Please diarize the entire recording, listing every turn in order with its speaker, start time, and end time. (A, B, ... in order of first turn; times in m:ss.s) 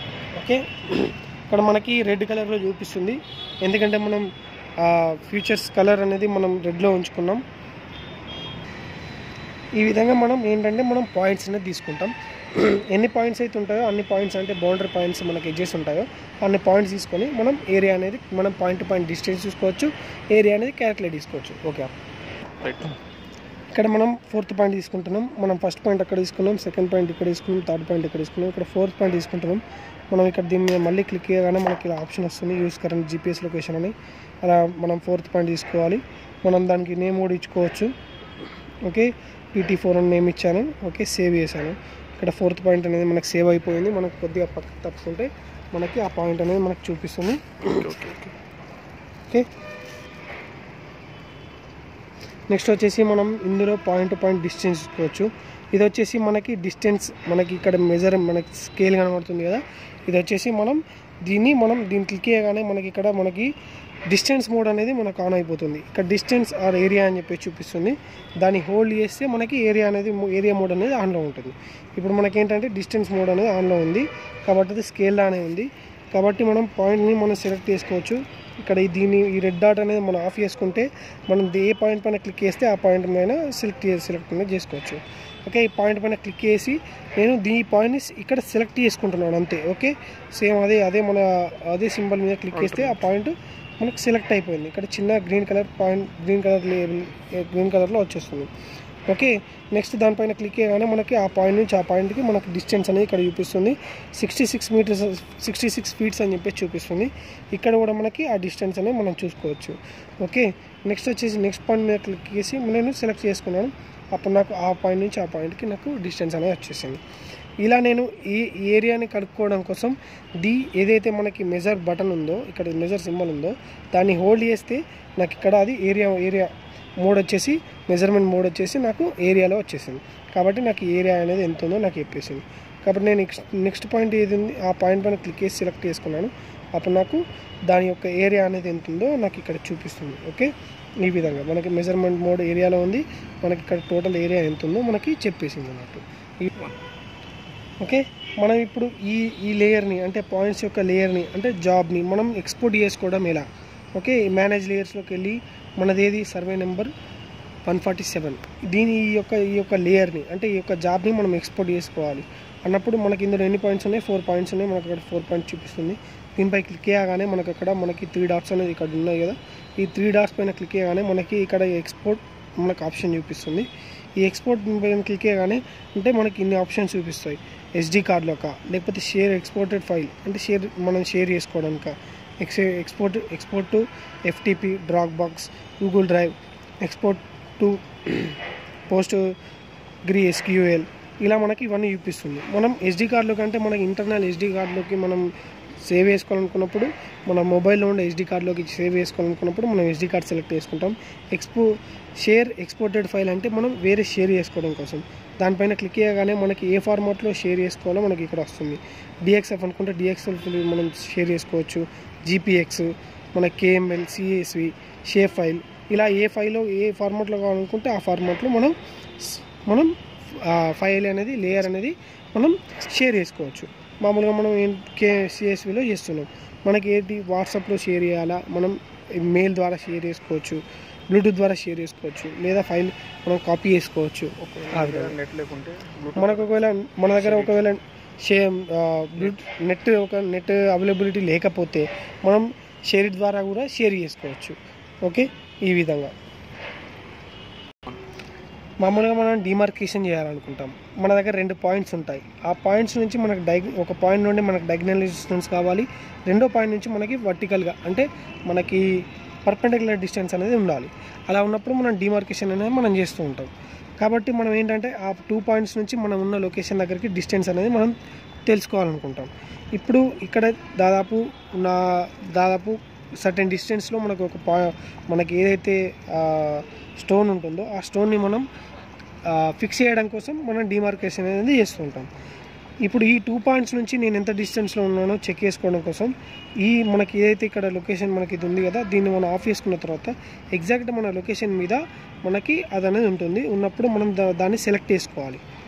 0:00.4-0:07.4 A
0:09.8-0:21.9 A
0:22.6-0:23.0 B
0:23.7-0:37.9 A
0:38.8-0:47.9 A
0:47.7-0:48.4 B
0:52.5-1:03.5 A
1:04.1-1:38.5 A
1:32.5-1:33.0 B
1:39.1-1:57.0 A
1:57.6-2:26.5 A
2:27.8-2:36.9 A
2:37.6-2:53.7 A
2:54.2-3:09.3 A
3:10.0-3:15.3 A
3:15.8-3:55.2 A
3:54.4-3:56.6 B
3:56.2-4:06.1 A
3:57.2-3:57.6 B
4:08.8-4:38.5 A
4:39.2-4:42.1 A
4:42.8-4:55.4 A